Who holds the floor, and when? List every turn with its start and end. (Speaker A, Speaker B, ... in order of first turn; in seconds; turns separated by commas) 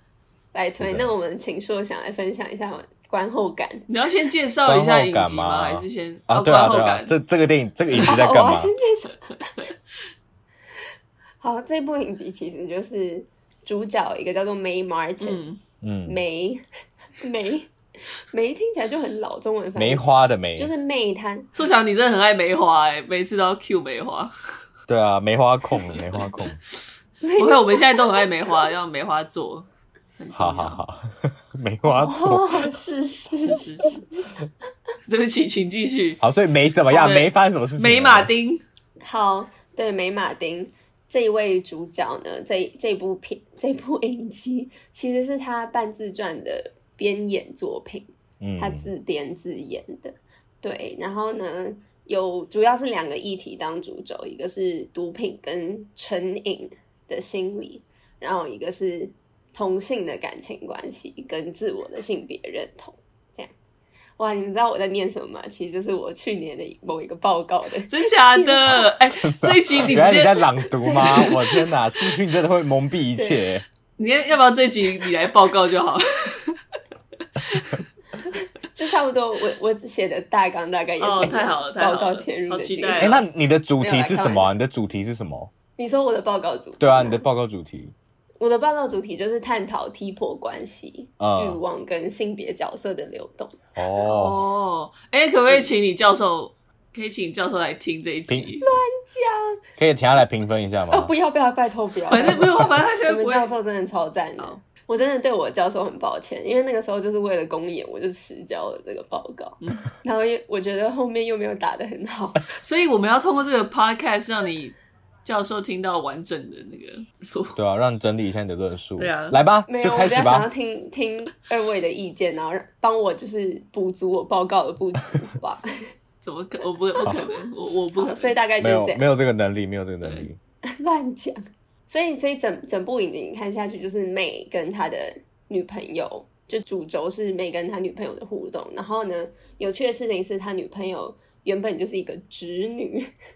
Speaker A: 0.5-3.9, Speaker B: 0.7-1.1, Speaker C: 3.9-7.1, Speaker B: 4.7-8.7, Speaker A: 7.9-9.7, Speaker A: 11.4-15.4, Speaker C: 15.2-15.6, Speaker B: 15.8-16.2, Speaker A: 16.1-16.6, Speaker A: 17.2-17.7, Speaker A: 18.2-20.0, Speaker B: 19.8-20.7, Speaker A: 20.6-21.5, Speaker C: 21.5-24.3, Speaker B: 24.9-26.6, Speaker C: 25.9-26.3, Speaker A: 27.2-28.6, Speaker C: 27.4-29.7, Speaker C: 30.2-30.8, Speaker B: 30.3-32.7, Speaker A: 31.8-34.3, Speaker C: 33.5-34.0, Speaker C: 35.1-36.2, Speaker B: 36.2-38.3, Speaker C: 36.9-38.6, Speaker A: 39.0-63.5, Speaker B: 48.4-48.9, Speaker A: 64.2-68.9, Speaker C: 67.9-71.7, Speaker B: 68.7-73.6, Speaker A: 70.8-71.3, Speaker A: 73.2-73.5, Speaker C: 74.0-76.6, Speaker C: 77.4-77.7, Speaker A: 78.2-83.2, Speaker C: 81.0-83.2, Speaker B: 83.0-85.5, Speaker A: 83.8-84.5, Speaker A: 85.8-87.2, Speaker B: 86.8-87.9, Speaker A: 88.4-93.6, Speaker B: 91.2-91.6, Speaker B: 93.8-94.4, Speaker C: 94.0-98.7, Speaker A: 98.6-99.6, Speaker B: 99.8-101.1, Speaker A: 100.9-112.4, Speaker C: 102.1-103.5, Speaker C: 112.6-117.6, Speaker B: 117.5-120.5, Speaker C: 119.0-119.4, Speaker A: 119.7-125.7, Speaker C: 126.2-128.4, Speaker A: 127.0-127.4, Speaker B: 127.0-127.2, Speaker A: 127.9-129.1, Speaker B: 128.6-130.4, Speaker C: 130.0-130.3, Speaker A: 130.7-143.1